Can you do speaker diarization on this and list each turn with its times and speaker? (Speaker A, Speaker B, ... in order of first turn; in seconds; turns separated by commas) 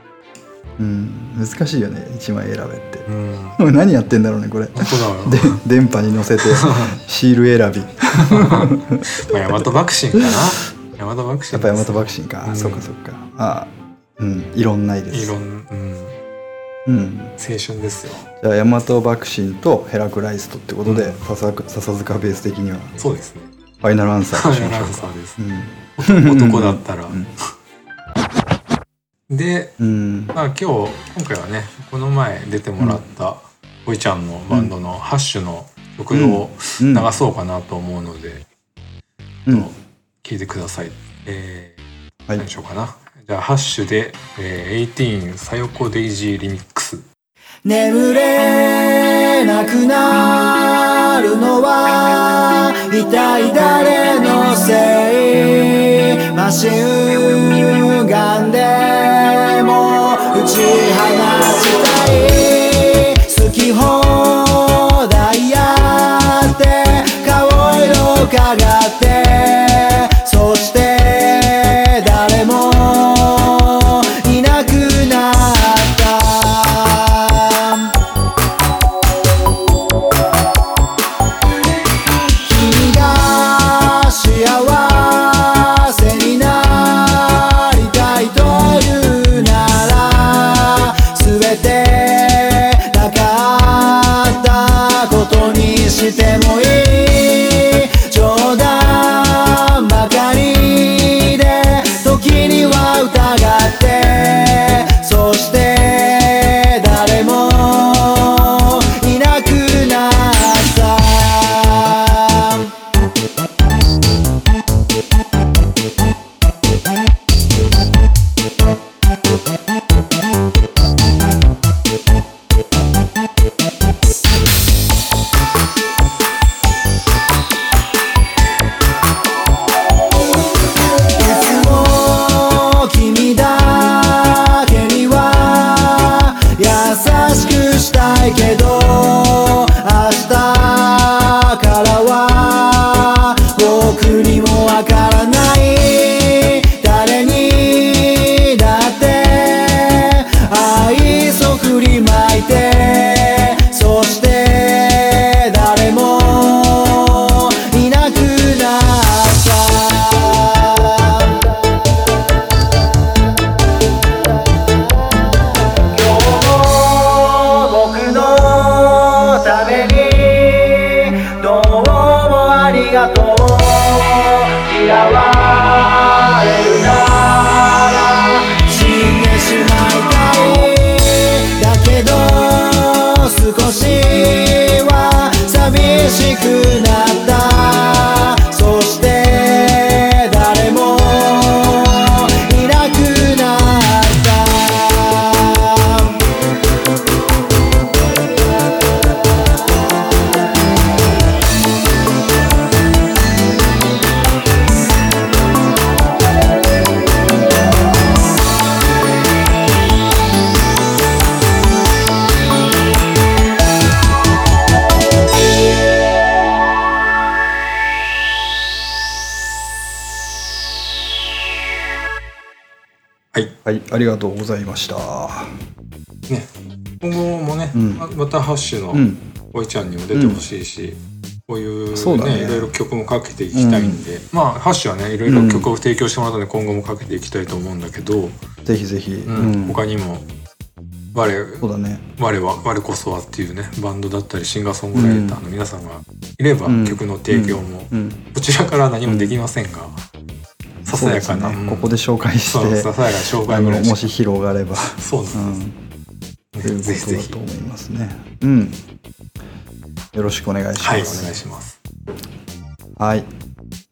Speaker A: 0.8-3.0, Speaker B: 3.1-3.6, Speaker A: 3.6-9.6, Speaker B: 4.8-5.6, Speaker B: 6.4-7.0, Speaker B: 8.2-12.9, Speaker A: 11.5-15.3, Speaker B: 15.1-16.2, Speaker A: 16.9-17.3, Speaker B: 17.4-18.3, Speaker A: 18.4-23.0, Speaker B: 20.9-21.2, Speaker B: 23.0-23.5, Speaker A: 23.8-27.3, Speaker B: 24.3-25.4, Speaker B: 26.0-27.2, Speaker B: 29.3-29.8, Speaker A: 29.8-30.4, Speaker B: 30.3-38.5, Speaker A: 36.1-37.1, Speaker B: 39.5-41.8, Speaker B: 42.4-47.1, Speaker C: 47.6-77.9, Speaker C: 82.4-112.7, Speaker C: 131.1-161.4, Speaker C: 165.9-196.2, Speaker A: 223.7-225.6, Speaker B: 226.3-238.4, Speaker A: 227.7-228.1, Speaker A: 228.9-229.2, Speaker A: 230.1-230.4, Speaker A: 231.9-232.7, Speaker A: 233.5-234.1, Speaker A: 235.3-235.7, Speaker A: 238.7-239.8, Speaker B: 239.3-240.3, Speaker B: 241.1-241.7, Speaker A: 241.6-242.0, Speaker B: 242.2-250.0, Speaker A: 244.9-245.4, Speaker A: 246.7-248.2, Speaker A: 249.1-249.4, Speaker B: 250.9-254.1, Speaker A: 250.9-255.8, Speaker B: 254.8-255.6, Speaker B: 256.5-257.4, Speaker A: 256.6-258.8, Speaker A: 260.1-261.4, Speaker B: 260.8-261.8, Speaker A: 263.0-263.3